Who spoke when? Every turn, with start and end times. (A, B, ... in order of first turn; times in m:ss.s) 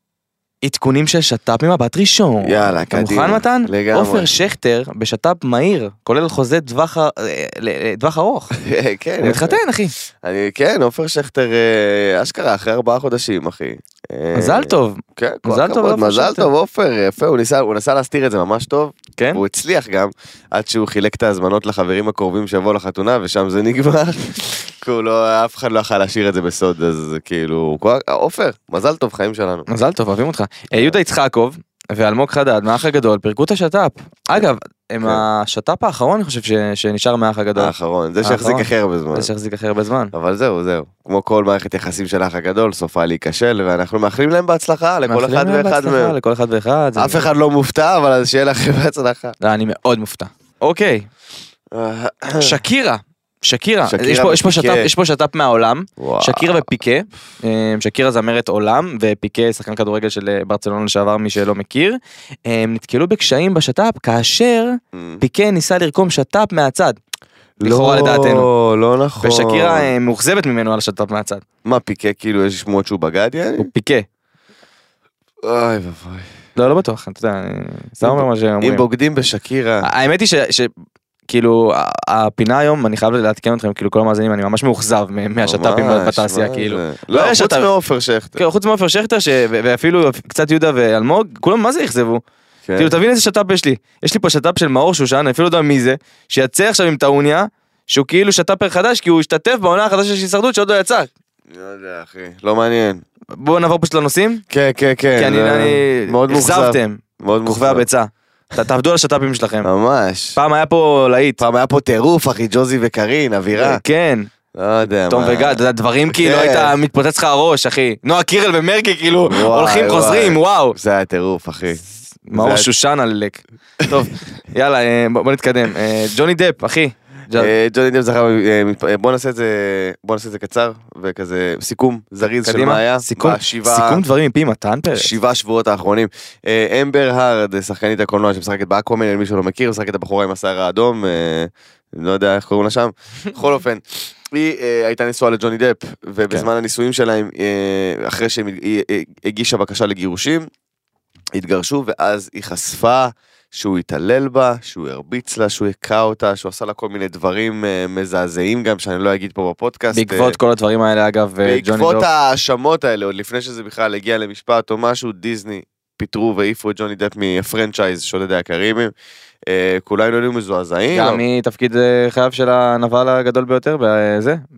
0:00.6-0:08.5 A
0:02.4-0:04.3 B
0:08.6-0:09.6 B
0:09.2-0:09.9 A
0:10.2-0:29.7 B
0:14.3-0:16.5 A
0:19.2-0:19.4 A
0:29.7-0:40.1 A
0:37.6-0:39.3 B
0:40.1-0:46.2 B
0:45.1-0:47.2 A
0:47.0-0:49.4 B
0:49.4-0:51.1 A
0:51.7-0:52.6 B
0:52.4-1:07.0 A
0:53.9-0:54.9 B
0:56.0-0:56.6 B
1:04.9-1:05.2 B
1:07.6-1:09.9 B
1:07.6-1:08.5 A
1:09.2-1:11.4 A
1:11.6-1:13.7 B
1:13.6-1:14.1 A
1:15.4-1:16.3 B
1:16.6-1:18.8 A
1:18.0-1:19.9 B
1:19.8-1:20.7 A
1:21.3-1:27.7 A
1:25.4-1:28.4 B
1:28.4-1:32.2 A
1:32.7-1:33.0 B
1:32.8-1:41.1 A
1:41.5-1:43.0 B
1:43.4-1:44.4 A
1:44.5-1:47.8 B
1:45.2-1:49.7 A
1:49.6-1:50.4 B
1:50.4-1:51.4 A
1:51.4-1:53.8 B
1:53.6-1:54.3 A
1:54.5-1:55.6 B
1:55.1-2:00.8 A
1:56.1-1:56.7 B
1:59.3-2:01.8 B
2:02.3-2:07.5 A
2:02.3-2:02.7 B
2:07.4-2:14.0 B
2:12.4-2:15.1 A
2:14.9-2:30.5 B
2:31.4-2:40.4 B
2:39.9-2:42.1 A
2:41.4-2:48.9 B
2:49.5-2:51.2 B
2:50.9-2:54.4 A